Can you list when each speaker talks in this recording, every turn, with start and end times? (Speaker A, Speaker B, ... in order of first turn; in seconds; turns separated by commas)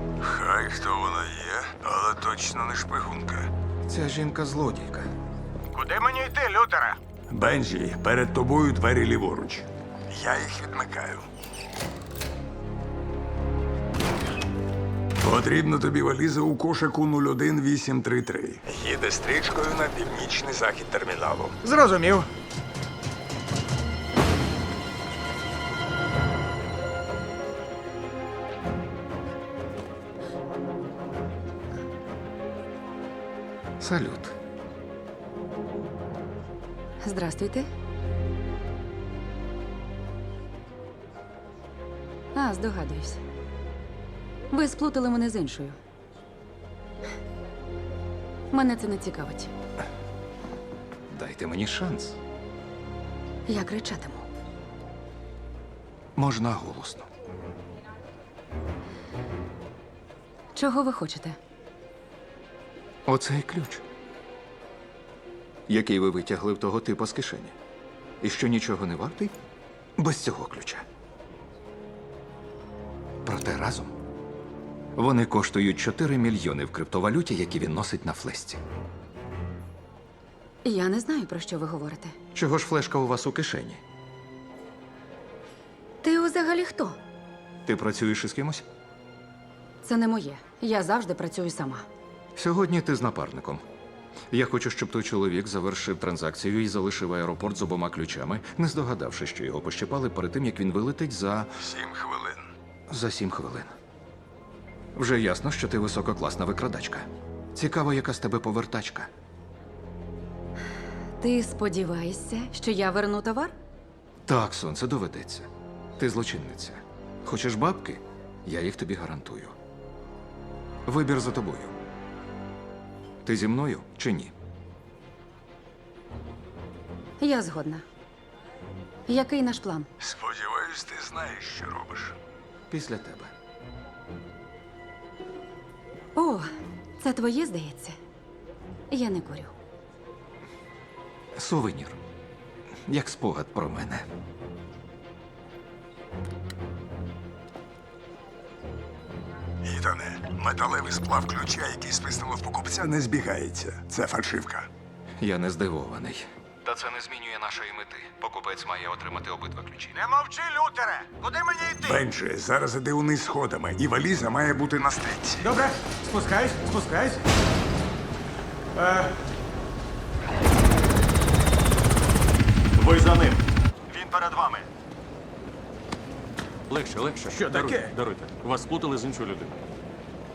Speaker A: 0.2-3.5, Speaker B: 3.9-5.1, Speaker C: 5.7-7.0, Speaker A: 7.3-11.3, Speaker A: 15.2-21.6, Speaker C: 21.6-22.3, Speaker B: 33.8-34.3, Speaker D: 37.0-37.7, Speaker D: 42.3-43.2, Speaker D: 44.5-45.8, Speaker D: 48.5-49.5, Speaker B: 51.1-52.2, Speaker D: 53.5-54.2, Speaker B: 56.1-57.1, Speaker D: 60.5-61.4, Speaker B: 63.0-63.8, Speaker B: 65.7-67.5, Speaker B: 68.2-69.3, Speaker B: 70.0-70.8, Speaker B: 73.2-73.9, Speaker B: 75.0-78.6, Speaker D: 80.6-82.2, Speaker B: 82.3-83.8, Speaker D: 86.0-87.0, Speaker B: 87.6-88.7, Speaker D: 89.8-91.8, Speaker B: 92.3-93.6, Speaker B: 94.3-101.5, Speaker A: 101.6-102.5, Speaker B: 102.9-103.7, Speaker B: 104.9-109.1, Speaker D: 111.2-113.5, Speaker B: 114.2-119.5, Speaker B: 120.8-121.7, Speaker B: 123.2-124.3, Speaker D: 127.2-127.8, Speaker D: 129.1-129.9, Speaker A: 130.0-132.2, Speaker B: 132.7-133.3, Speaker D: 136.1-136.5, Speaker D: 137.0-137.9, Speaker D: 138.9-139.5, Speaker B: 141.3-142.0, Speaker B: 142.8-144.0, Speaker A: 149.6-154.7, Speaker B: 155.2-160.0, Speaker C: 160.0-162.0, Speaker A: 161.8-165.5, Speaker C: 165.4-167.2, Speaker C: 168.7-169.1, Speaker C: 172.8-174.7, Speaker E: 172.8-173.3, Speaker E: 176.7-179.5, Speaker C: 177.5-177.9